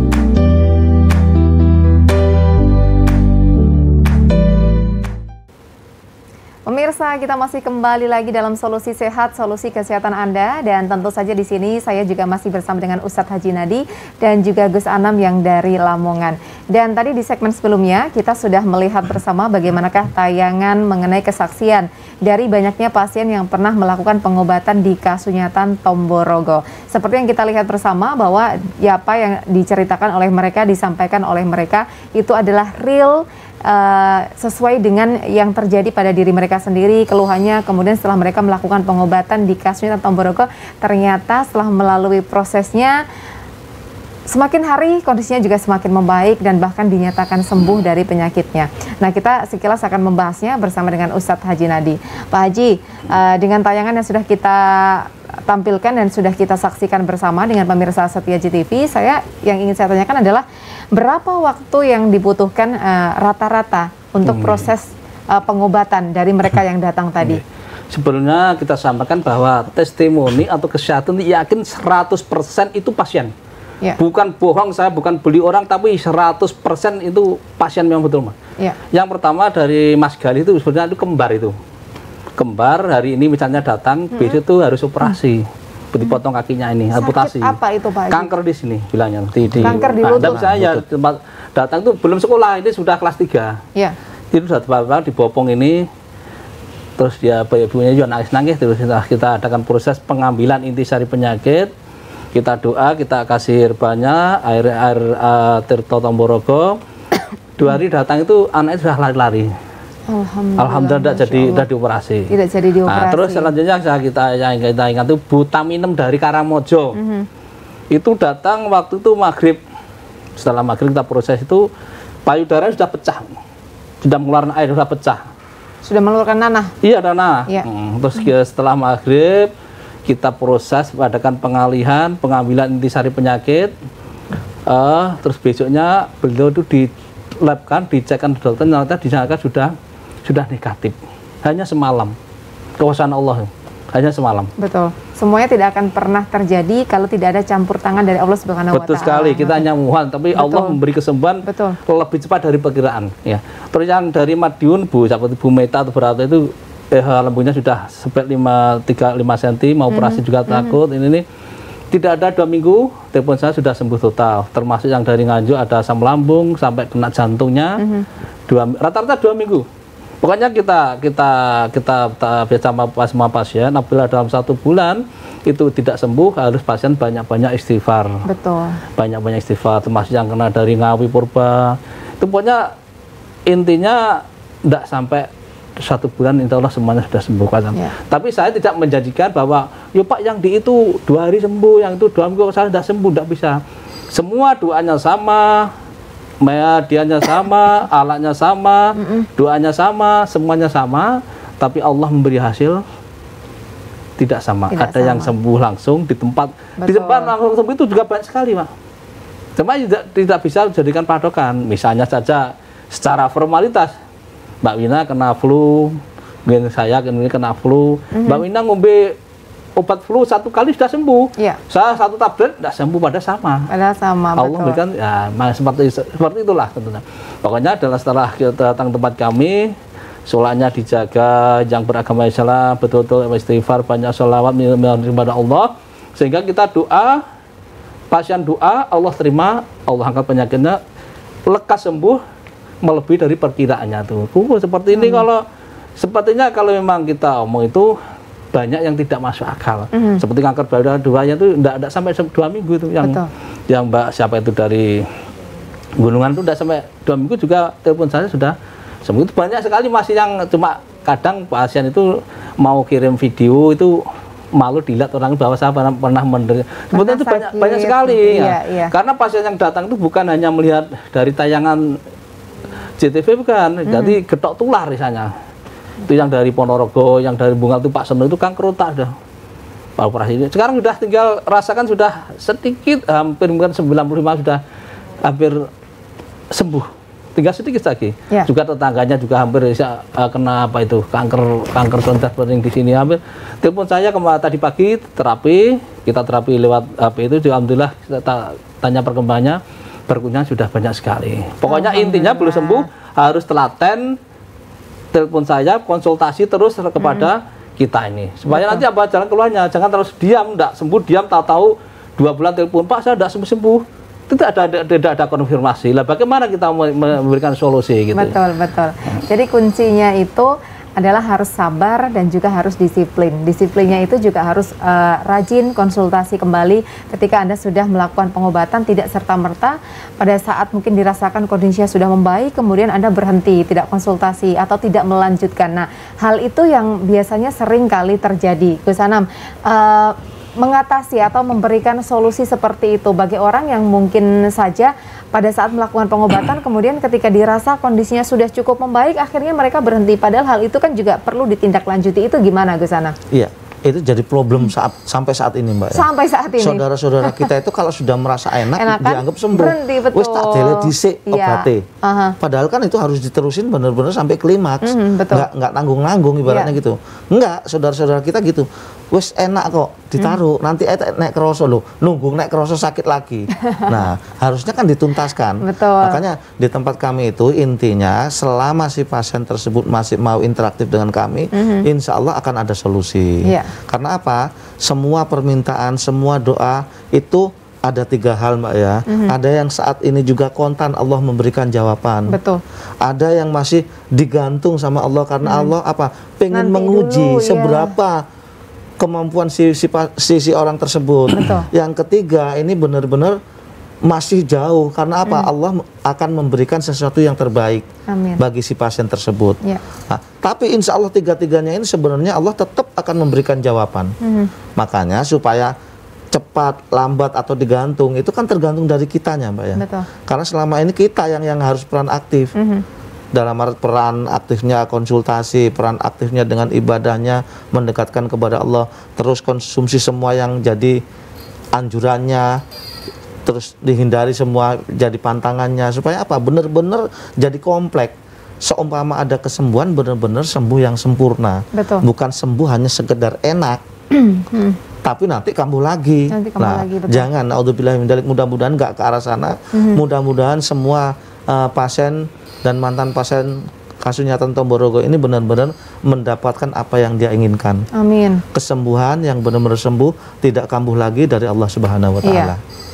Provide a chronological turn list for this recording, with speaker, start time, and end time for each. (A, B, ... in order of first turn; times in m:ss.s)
0:06.7-0:43.0 A
0:44.3-1:07.4 A
1:04.2-1:04.7 B
1:07.2-1:13.3 B
1:14.0-1:18.3 B
1:18.9-1:21.5 B
1:22.4-1:25.4 B
1:25.9-1:27.5 B
1:26.9-1:28.3 A
1:28.1-1:33.6 B
1:29.5-1:30.8 C
1:29.6-1:30.4 A
1:34.3-1:35.8 B
1:37.0-1:41.7 B
1:42.3-1:46.8 B
1:47.6-1:49.5 B
1:50.1-1:51.7 A
1:50.6-1:52.3 B
1:52.3-1:53.5 A
1:52.9-1:57.0 B
1:56.9-1:57.3 A
1:57.9-1:59.6 B
2:00.4-2:01.6 B
2:02.2-2:03.3 B
2:04.0-2:05.2 B
2:05.8-2:06.7 A
2:06.8-2:09.5 B
2:10.0-2:13.7 B
2:14.7-2:19.7 B
2:20.2-2:22.2 B
2:22.8-2:24.5 B
2:24.6-2:29.6 A
2:28.7-2:41.2 B
2:30.4-2:30.8 A
2:31.4-2:31.8 A
2:39.9-2:40.8 A
2:41.9-2:47.8 B
2:47.8-2:48.0 A
2:48.5-2:49.6 B
2:50.2-2:58.2 B
2:58.2-2:58.8 A
2:59.0-3:02.7 B
3:03.5-3:13.6 B
3:14.1-3:15.7 B
3:16.4-3:22.8 B
3:19.0-3:19.3 A
3:24.2-3:28.7 B
3:24.7-3:25.3 A
3:26.8-3:27.3 A
3:29.6-3:33.9 B
3:34.6-3:39.2 B
3:38.1-3:38.4 A
3:39.8-3:43.7 B
3:43.7-3:44.8 A
3:44.4-3:49.7 B
3:50.3-3:57.2 B
3:58.1-4:00.8 B
4:01.5-4:02.2 B
4:02.8-4:05.4 B
4:04.9-4:05.2 A
4:06.0-4:07.9 B
4:08.5-4:15.0 B
4:09.9-4:10.2 A
4:13.0-4:13.3 A
4:16.0-4:24.0 B
4:24.6-4:32.0 B
4:26.9-4:28.9 A
4:33.0-4:35.3 B
4:33.9-4:34.1 A
4:36.1-4:39.1 B
4:40.0-4:44.6 B
4:45.2-4:45.7 B
4:46.5-5:04.2 B
5:01.7-5:02.8 A
5:05.1-5:18.4 B
5:07.0-5:07.3 A
5:08.5-5:08.8 A
5:18.1-5:53.1 A
5:53.3-6:01.8 C
5:55.9-5:57.5 A
5:58.8-6:02.4 A
6:02.4-6:32.4 C
6:04.8-6:05.5 A
6:06.5-6:06.7 A
6:13.6-6:14.0 A
6:15.6-6:16.2 A
6:21.5-6:21.8 A
6:23.4-6:23.7 A
6:29.1-6:29.3 A
6:32.3-6:32.6 A
6:33.0-6:38.2 C
6:35.4-6:35.7 A
6:36.5-6:37.9 A
6:39.0-6:43.4 C
6:41.3-6:41.7 A
6:44.0-6:47.8 C
6:48.1-6:48.4 A
6:48.4-6:54.1 C
6:54.2-6:54.5 A
6:54.8-6:55.7 C
6:56.3-7:02.5 C
6:59.8-7:00.0 A
7:02.6-7:02.8 A
7:03.3-7:11.0 C
7:11.7-7:12.6 C
7:13.4-7:23.8 C
7:21.7-7:22.0 A
7:24.1-7:24.8 A
7:25.0-7:37.8 C
7:26.3-7:27.3 A
7:29.7-7:30.0 A
7:37.9-7:38.4 A
7:38.5-7:42.6 C
7:42.2-7:42.5 A